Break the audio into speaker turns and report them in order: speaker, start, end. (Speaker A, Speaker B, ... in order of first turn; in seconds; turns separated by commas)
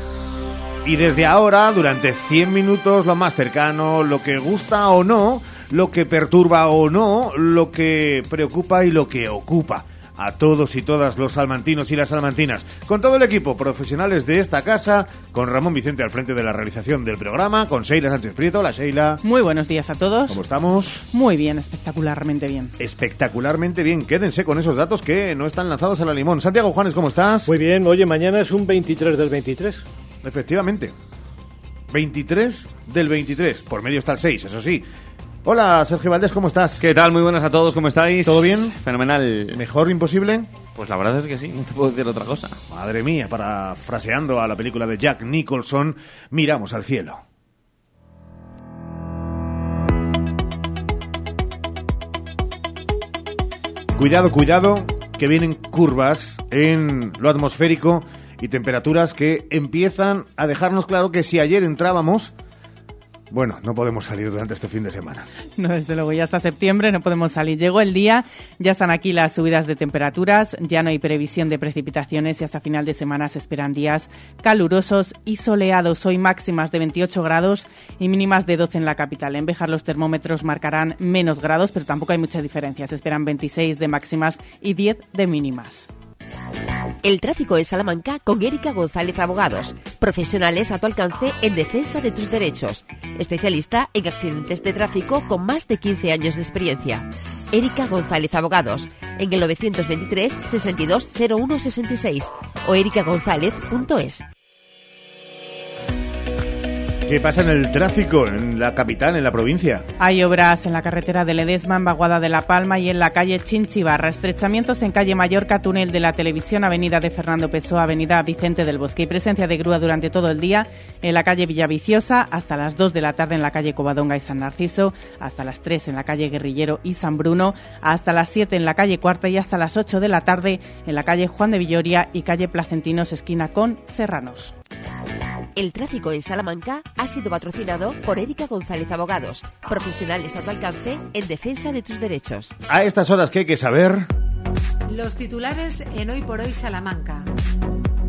Speaker A: 0.8-19.2, Speaker B: 19.2-20.4, Speaker A: 20.3-21.1, Speaker B: 21.1-22.7, Speaker A: 22.8-27.5, Speaker C: 27.5-29.9, Speaker A: 30.2-30.9, Speaker A: 31.9-34.9, Speaker A: 35.5-36.8, Speaker D: 36.8-39.6, Speaker A: 38.2-38.8, Speaker A: 39.5-40.5, Speaker D: 40.8-42.6, Speaker A: 42.7-47.2, Speaker A: 54.0-62.3, Speaker A: 63.3-65.3, Speaker B: 65.6-85.9, Speaker E: 87.0-104.2, Speaker A: 107.1-109.9, Speaker B: 110.0-134.5, Speaker E: 135.6-142.5, Speaker A: 142.7-144.1, Speaker F: 144.9-147.3